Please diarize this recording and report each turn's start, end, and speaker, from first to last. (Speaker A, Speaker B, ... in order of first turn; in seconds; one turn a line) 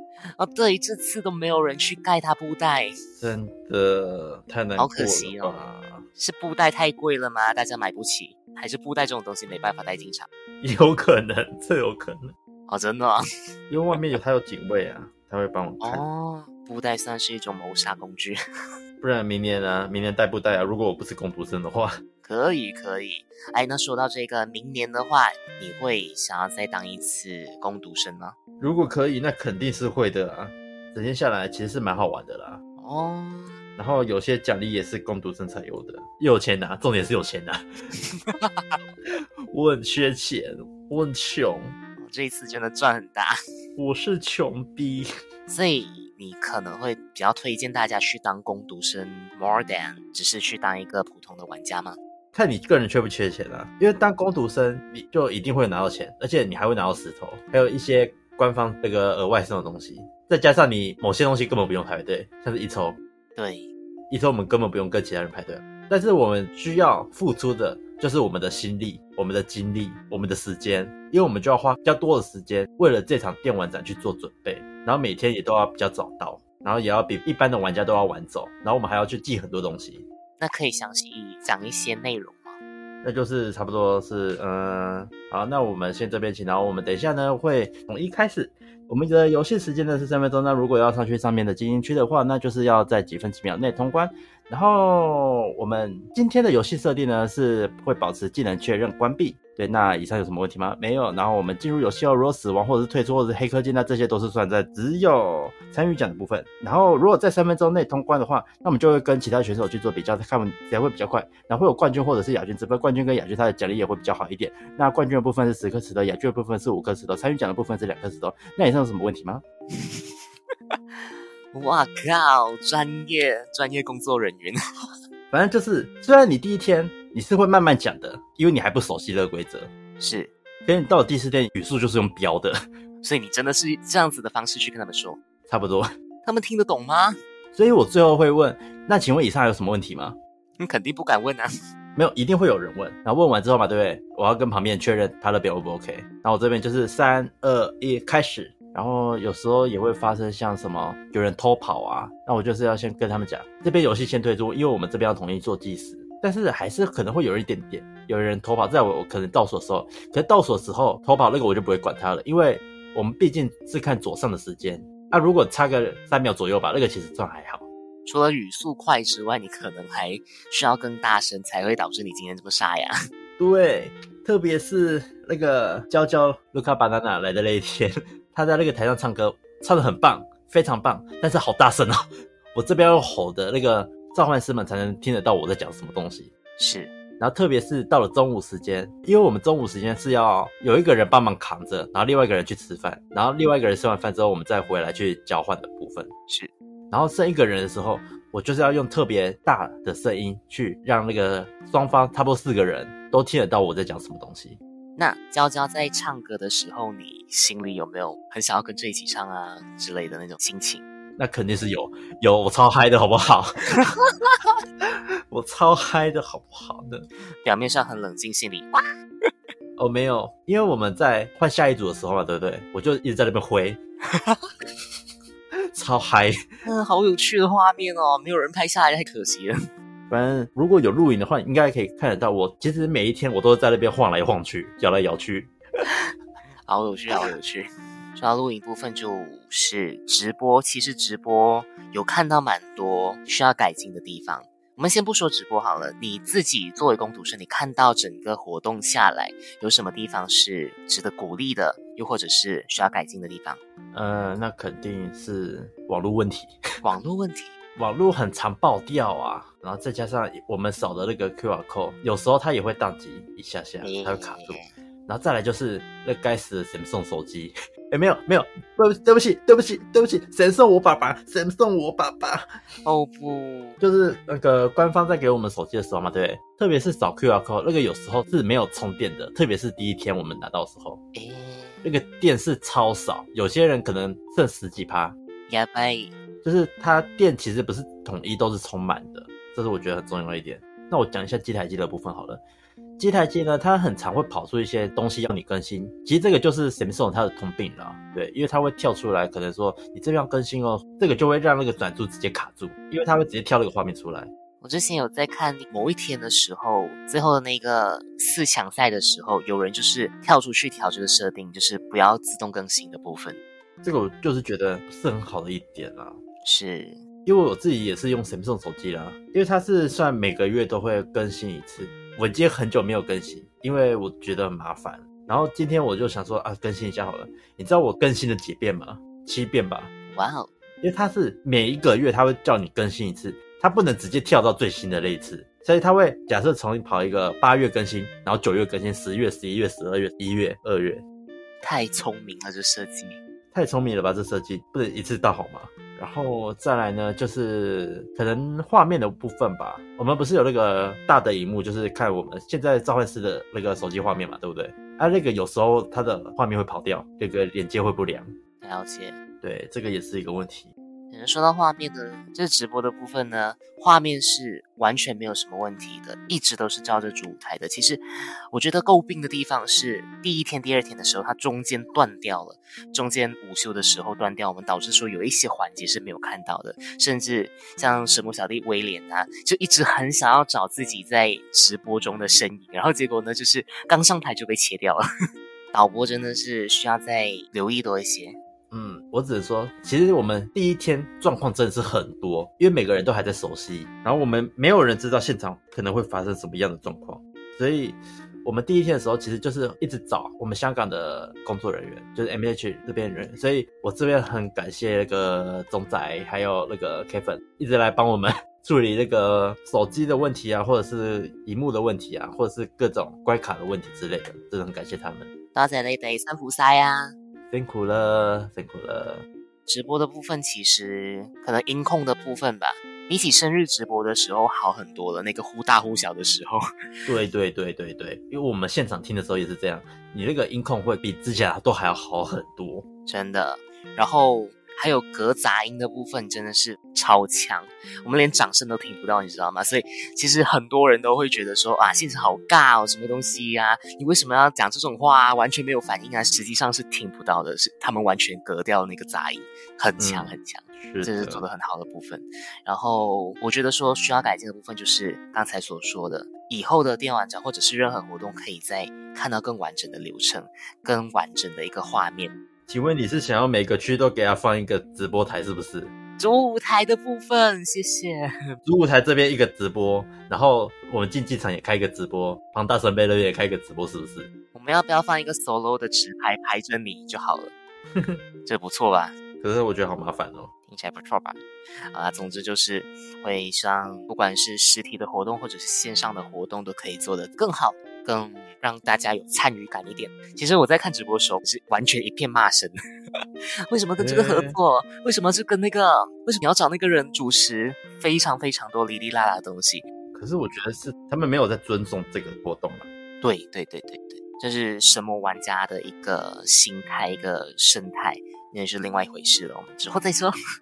Speaker A: 0.4-2.9
Speaker B: 3.2-6.0
Speaker A: 4.8-10.3
Speaker B: 10.6-12.3
Speaker A: 12.7-13.2
Speaker B: 13.7-16.0
Speaker A: 15.8-18.4
Speaker B: 19.0-22.0
Speaker A: 22.2-28.4
Speaker B: 28.6-32.6
Speaker A: 32.8-33.6
Speaker B: 33.8-37.6
Speaker A: 38.0-38.8
Speaker B: 39.1-41.8
Speaker A: 42.0-43.4
Speaker B: 43.8-45.1
Speaker A: 45.5-52.0
Speaker B: 52.3-63.0
Speaker A: 63.4-63.7
Speaker B: 64.1-80.0
Speaker A: 80.4-82.6
Speaker B: 83.0-119.4
Speaker A: 119.8-120.0
Speaker A: 121.5-124.6
Speaker B: 125.3-129.7
Speaker A: 130.0-130.3
Speaker B: 130.6-132.6
Speaker A: 133.0-135.2
Speaker B: 135.5-135.9
Speaker A: 136.2-137.2
Speaker B: 137.5-140.2
Speaker A: 140.6-141.5
Speaker B: 141.9-167.6
Speaker A: 168.1-172.9
Speaker B: 173.4-182.0
Speaker B: 182.5-186.3
Speaker A: 186.6-186.9
Speaker B: 187.2-196.1
Speaker B: 196.9-204.6
Speaker A: 205.0-210.8
Speaker B: 211.2-213.9
Speaker B: 214.8-217.1
Speaker A: 217.4-218.8
Speaker B: 219.8-223.8
Speaker A: 224.1-224.5
Speaker B: 225.7-226.4
Speaker A: 226.6-229.6
Speaker B: 230.1-235.5
Speaker A: 236.7-253.6
Speaker B: 253.9-256.5
Speaker A: 256.8-257.5
Speaker B: 257.8-272.5
Speaker A: 263.8-264.7
Speaker A: 272.8-273.8
Speaker B: 273.8-281.0
Speaker A: 281.1-281.9
Speaker B: 281.8-285.1
Speaker A: 285.5-286.1
Speaker B: 286.4-292.4
Speaker B: 293.0-304.3
Speaker A: 304.6-313.4
Speaker B: 313.8-316.2
Speaker A: 316.4-317.0
Speaker B: 317.2-329.9
Speaker A: 330.1-330.5
Speaker B: 330.8-341.0
Speaker A: 341.6-343.2
Speaker B: 343.5-358.3
Speaker A: 358.6-359.2
Speaker B: 359.4-360.7
Speaker A: 361.1-385.0
Speaker A: 385.7-388.4
Speaker B: 388.7-415.3
Speaker A: 415.5-417.1
Speaker B: 417.5-419.2
Speaker A: 419.7-426.6
Speaker B: 427.1-432.8
Speaker A: 433.1-462.4
Speaker B: 450.0-451.4
Speaker B: 462.7-465.9
Speaker A: 466.2-468.3
Speaker B: 468.6-474.3
Speaker A: 474.5-477.5
Speaker A: 478.4-479.1
Speaker B: 479.4-480.5
Speaker A: 480.7-481.4
Speaker A: 481.9-492.8
Speaker A: 493.7-499.8
Speaker B: 494.0-494.6
Speaker B: 500.1-502.9
Speaker A: 503.2-510.3